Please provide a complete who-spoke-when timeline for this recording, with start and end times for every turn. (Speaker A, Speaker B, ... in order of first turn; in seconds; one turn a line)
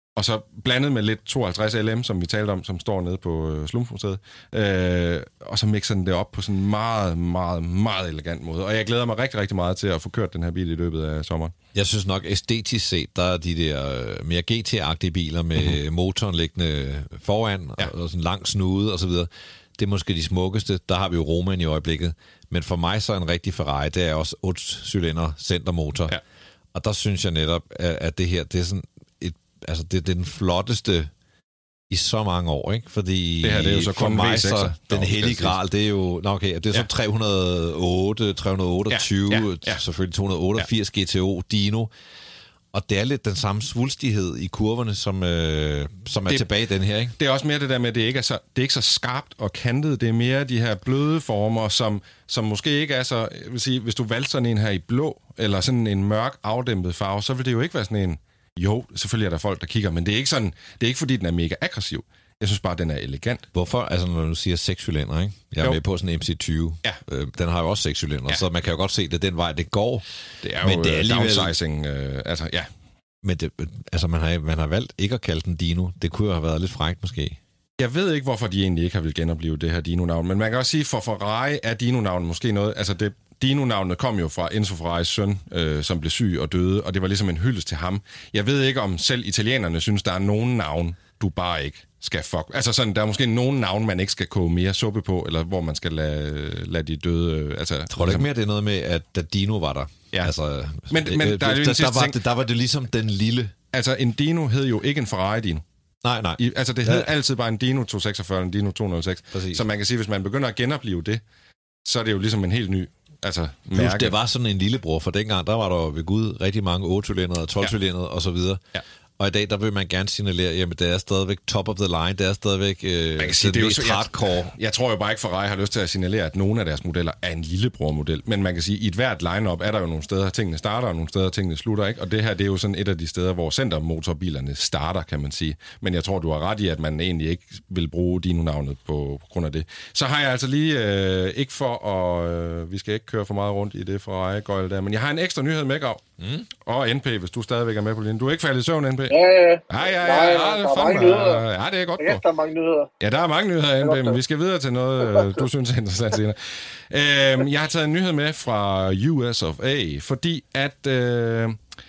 Speaker A: 0.2-11.5
Speaker B: 11.7-26.1
Speaker B: 26.8-31.1
Speaker B: 31.9-41.9
Speaker A: 33.4-35.6
Speaker A: 38.9-39.8
Speaker B: 42.7-47.1
Speaker A: 47.2-63.5
Speaker B: 63.5-70.0
Speaker A: 70.4-72.7
Speaker B: 70.6-71.5
Speaker B: 73.2-77.4
Speaker A: 77.8-98.3
Speaker B: 97.9-103.5
Speaker A: 100.9-102.2
Speaker A: 103.7-105.6
Speaker B: 106.0-107.1
Speaker A: 106.4-111.2
Speaker B: 109.3-109.6
Speaker A: 111.8-114.1
Speaker B: 113.8-118.6
Speaker B: 119.2-124.5
Speaker A: 123.2-146.0
Speaker B: 146.2-146.5
Speaker A: 146.6-149.2
Speaker C: 149.1-151.4
Speaker A: 149.7-152.2
Speaker C: 152.0-152.9
Speaker A: 153.0-161.6
Speaker C: 153.8-154.2
Speaker C: 155.0-155.4